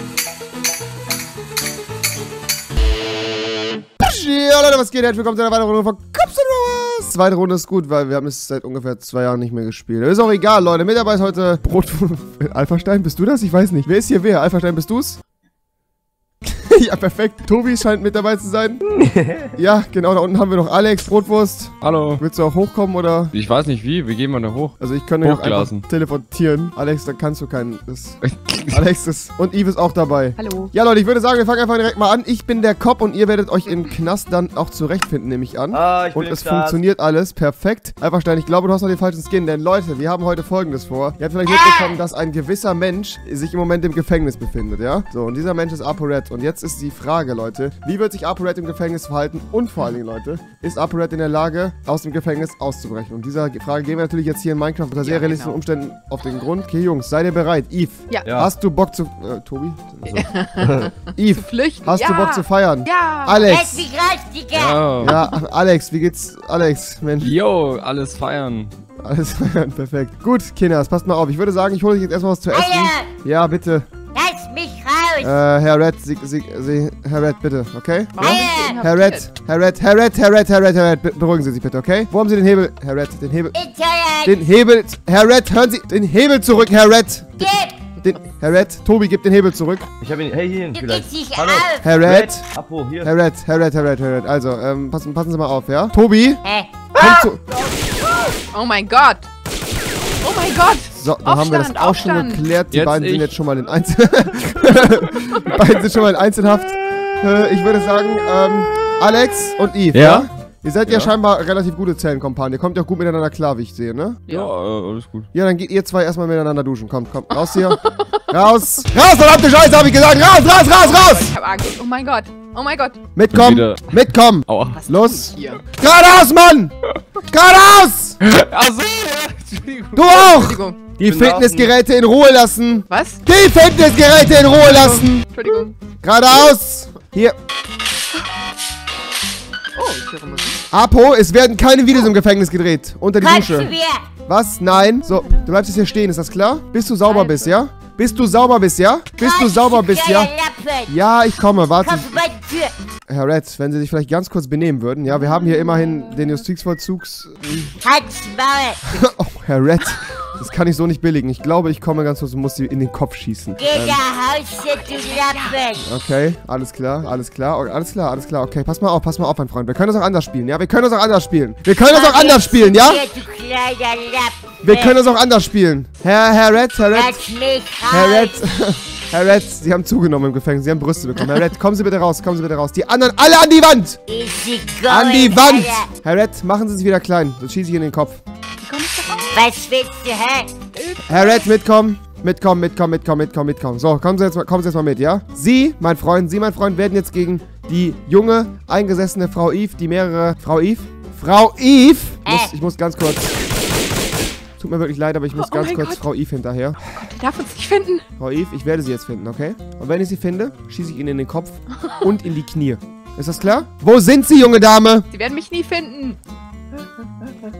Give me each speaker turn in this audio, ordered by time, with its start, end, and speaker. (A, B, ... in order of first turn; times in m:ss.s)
0:04.0-0:15.2 A
0:16.4-0:18.8 A
0:18.9-0:19.6 B
0:19.6-0:23.3 A
0:21.8-0:22.2 C
0:23.3-0:25.8 C
0:24.8-0:28.2 A
0:28.2-0:28.8 C
0:28.7-1:00.4 A
0:30.4-0:30.7 D
0:35.7-0:36.8 B
0:41.5-0:42.0 E
0:55.0-0:55.6 D
0:58.2-0:58.5 B
1:00.0-1:03.4 D
1:00.6-1:00.9 B
1:01.1-1:03.8 A
1:03.4-1:04.9 E
1:04.5-1:05.2 C
1:05.0-1:07.4 A
1:07.2-1:08.7 C
1:09.0-1:13.9 A
1:12.5-1:13.1 E
1:14.1-1:15.4 E
1:15.2-1:23.6 A
1:18.1-1:19.3 D
1:18.2-1:18.8 E
1:23.5-1:24.4 E
1:24.2-1:29.9 A
1:27.4-1:27.8 E
1:30.0-1:33.1 B
1:30.7-1:31.8 E
1:31.8-1:32.4 A
1:33.0-1:36.4 A
1:36.4-1:36.8 E
1:36.9-1:37.4 A
1:37.5-1:38.4 B
1:38.5-1:39.3 D
1:40.2-1:42.5 D
1:40.9-1:54.2 A
1:42.7-1:43.3 C
1:49.9-1:50.3 C
1:50.8-1:51.1 C
1:54.3-1:54.5 D
1:54.3-1:55.3 C
1:55.3-2:01.3 A
1:57.5-1:58.2 D
2:00.6-2:03.0 D
2:03.1-2:06.7 A
2:03.3-2:04.8 C
2:04.7-2:05.6 D
2:07.3-2:08.2 A
2:08.2-2:10.3 C
2:09.9-2:15.2 A
2:10.1-2:11.0 D
2:11.0-2:11.7 B
2:12.9-2:13.2 D
2:14.6-2:15.8 D
2:16.0-2:17.4 A
2:19.7-2:20.6 D
2:20.7-2:23.7 A
2:23.2-2:24.1 E
2:24.2-2:30.3 A
2:27.1-2:27.5 D
2:29.2-2:30.9 E
2:30.9-2:32.2 A
2:31.8-2:32.7 E
2:33.1-2:37.7 A
2:37.8-2:38.9 E
2:38.9-2:44.0 A
2:43.6-2:45.8 E
2:44.7-2:45.6 D
2:45.8-2:53.0 A
2:51.8-2:55.0 E
2:54.6-2:57.3 A
2:56.9-2:58.4 E
2:57.9-3:04.0 A
3:04.1-3:05.9 E
3:04.9-3:08.2 A
3:08.6-3:09.4 D
3:09.3-3:10.5 E
3:10.7-3:11.5 D
3:11.1-3:23.4 A
3:22.2-3:22.5 E
3:24.6-3:26.8 A
3:25.3-3:26.0 D
3:26.8-3:28.0 D
3:28.2-3:35.1 A
3:35.1-3:36.2 D
3:37.0-3:37.3 D